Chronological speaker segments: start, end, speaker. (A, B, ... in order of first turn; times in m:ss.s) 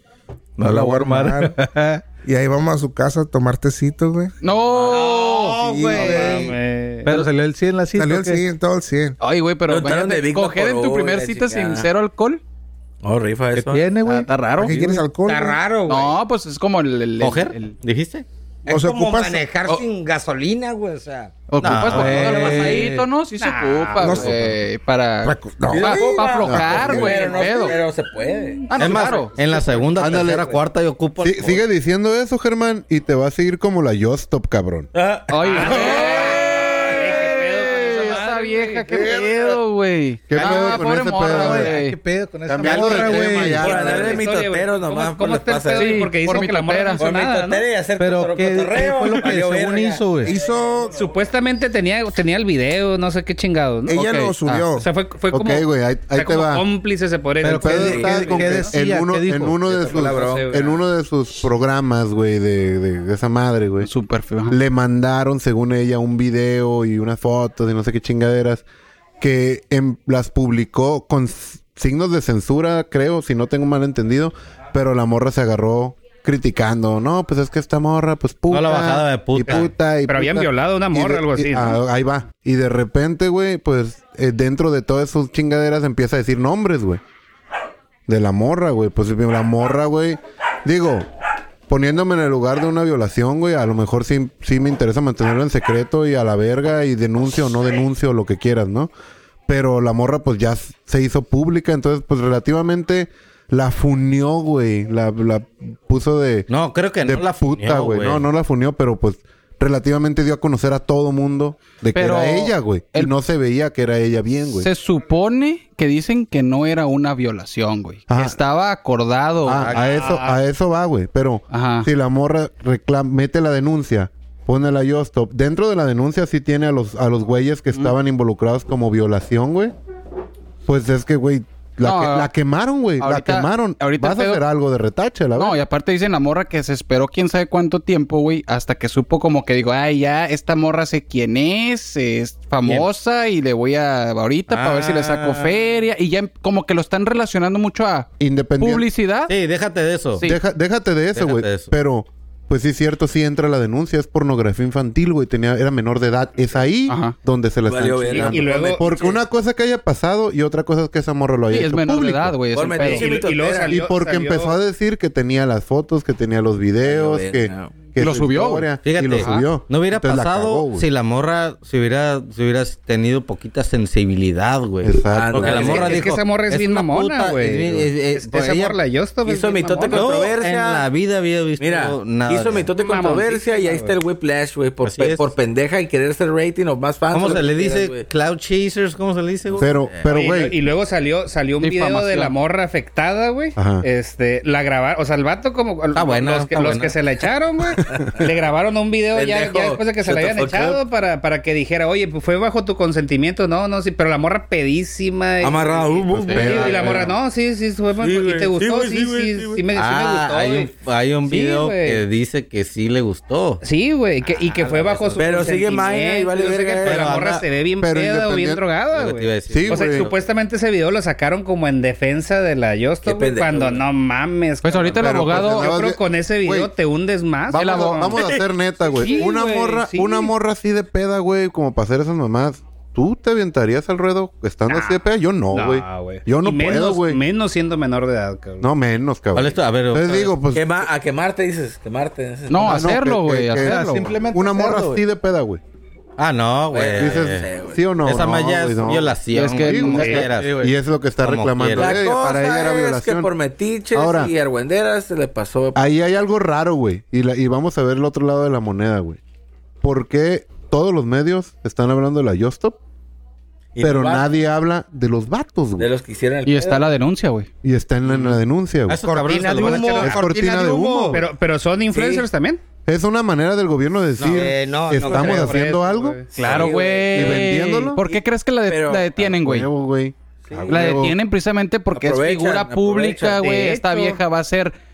0:00.6-0:02.0 A
0:00.6-0:01.6 B
0:02.2-0:04.3 B
0:04.4-0:06.3 C
0:04.4-0:05.0 D
0:04.9-0:06.5 E
0:05.7-0:06.5 B
0:05.9-0:07.1 F
0:07.0-0:08.4 A
0:07.9-0:09.2 B
0:09.2-0:12.4 C
0:09.7-0:11.9 D
0:13.0-0:13.8 D
0:13.5-0:15.0 A
0:14.0-0:14.9 C
0:14.6-0:15.6 B
0:15.2-0:16.2 E
0:15.9-0:17.8 C
0:17.2-0:18.2 G
0:18.6-0:21.3 E
0:18.7-0:19.4 B
0:21.5-0:27.8 C
0:21.6-0:23.0 G
0:21.9-0:22.9 A
0:22.4-0:22.9 E
0:23.4-0:24.3 F
0:24.0-0:24.4 B
0:25.2-0:26.9 B
0:25.7-0:29.5 D
0:26.5-0:27.1 H
0:28.6-0:29.3 C
0:28.7-0:31.6 G
0:29.4-0:30.5 E
0:29.9-0:30.6 H
0:31.2-0:34.9 H
0:34.9-0:36.4 D
0:35.3-0:37.0 C
0:35.4-0:39.1 F
0:37.8-0:42.0 C
0:38.9-0:39.6 D
0:39.0-0:39.2 H
0:40.3-0:41.8 H
0:40.4-0:43.8 A
0:42.5-0:44.2 H
0:42.6-0:46.0 D
0:43.5-0:47.6 F
0:45.7-0:47.0 C
0:47.0-0:50.1 D
0:48.0-0:50.3 A
0:50.2-0:51.0 B
0:50.8-0:54.1 F
0:53.9-0:54.9 B
0:53.9-0:54.6 C
0:54.8-0:58.7 F
0:55.3-0:56.6 H
0:57.4-0:59.6 A
0:57.4-1:03.9 H
0:57.8-0:58.2 D
0:59.7-1:00.5 D
0:59.9-1:00.8 F
1:03.8-1:04.6 C
1:04.5-1:08.6 H
1:09.2-1:27.0 H
1:18.5-1:19.7 G
1:19.4-1:21.8 F
1:28.1-1:31.1 H
1:31.7-1:38.9 H
1:39.5-1:46.5 H
1:46.5-1:48.2 G
1:47.0-1:54.7 H
1:51.9-1:53.1 C
1:54.5-1:59.8 C
1:58.1-1:58.4 H
1:59.4-2:09.7 H
1:59.7-2:00.4 F
2:01.5-2:01.9 C
2:10.6-2:15.6 H
2:11.8-2:12.3 C
2:13.0-2:14.4 C
2:15.3-2:29.3 C
2:24.5-2:25.6 G
2:28.2-2:28.9 H
2:29.3-2:30.2 G
2:30.2-2:42.4 H
2:31.1-2:31.7 G
2:36.9-2:37.2 C
2:37.7-2:39.2 D
2:38.1-2:38.9 F
2:41.5-2:43.2 C
2:42.5-2:43.8 D
2:42.8-2:44.6 F
2:43.7-2:50.8 H
2:46.8-2:47.7 D
2:48.0-2:49.5 C
2:48.8-2:58.8 G
2:54.8-2:56.0 H
2:55.1-2:56.0 D
2:55.6-3:00.2 F
2:59.2-3:00.8 D
2:59.9-3:02.7 G
3:01.6-3:08.0 D
3:02.7-3:04.0 F
3:04.8-3:05.3 G
3:07.1-3:09.9 G
3:09.4-3:10.0 D
3:09.6-3:10.6 H
3:10.1-3:30.7 F
3:11.6-3:12.3 C
3:13.6-3:13.8 H
3:15.9-3:17.0 G
3:17.9-3:18.3 D
3:19.1-3:20.8 D
3:25.4-3:27.1 D
3:26.1-3:27.1 H
3:28.0-3:29.6 D
3:29.7-3:33.6 G
3:31.2-3:32.0 F
3:33.6-3:48.2 F
3:34.7-3:35.3 G
3:35.1-3:37.1 D
3:36.8-3:37.4 G
3:37.8-3:38.6 H
3:38.9-3:40.2 G
3:39.5-3:40.1 H
3:43.0-3:43.8 D
3:44.6-3:45.8 C
3:44.8-3:46.7 H
3:47.5-3:57.2 H
3:47.5-3:48.1 C
3:48.8-3:50.3 F
3:54.7-3:58.6 F
3:58.6-4:00.8 H
3:59.3-4:00.3 G
4:00.5-4:03.0 D
4:02.5-4:04.1 C
4:02.6-4:05.6 H
4:03.6-4:05.0 A
4:06.2-4:07.5 G
4:06.7-4:07.8 D
4:07.0-4:13.3 H
4:08.0-4:10.7 G
4:09.3-4:10.3 C
4:10.1-4:10.7 D
4:11.2-4:12.0 G
4:11.7-4:15.8 D
4:13.9-4:14.3 H
4:15.7-4:19.2 H
4:19.8-4:22.8 H
4:23.7-4:24.3 D
4:23.8-4:25.9 H
4:25.8-4:26.9 D
4:26.4-4:27.5 C
4:27.6-4:29.0 H
4:28.9-4:30.2 G
4:29.0-4:31.2 E
4:30.0-4:31.2 H
4:31.1-4:32.6 F
4:31.9-4:32.2 D
4:32.8-4:36.2 H
4:34.3-4:35.6 E
4:35.0-4:36.5 F
4:36.3-4:39.7 C
4:36.4-4:39.4 D
4:37.1-4:38.0 H
4:39.4-4:41.1 H
4:40.4-4:41.0 D
4:40.7-4:44.8 C
4:41.9-4:43.5 D
4:43.3-4:44.2 F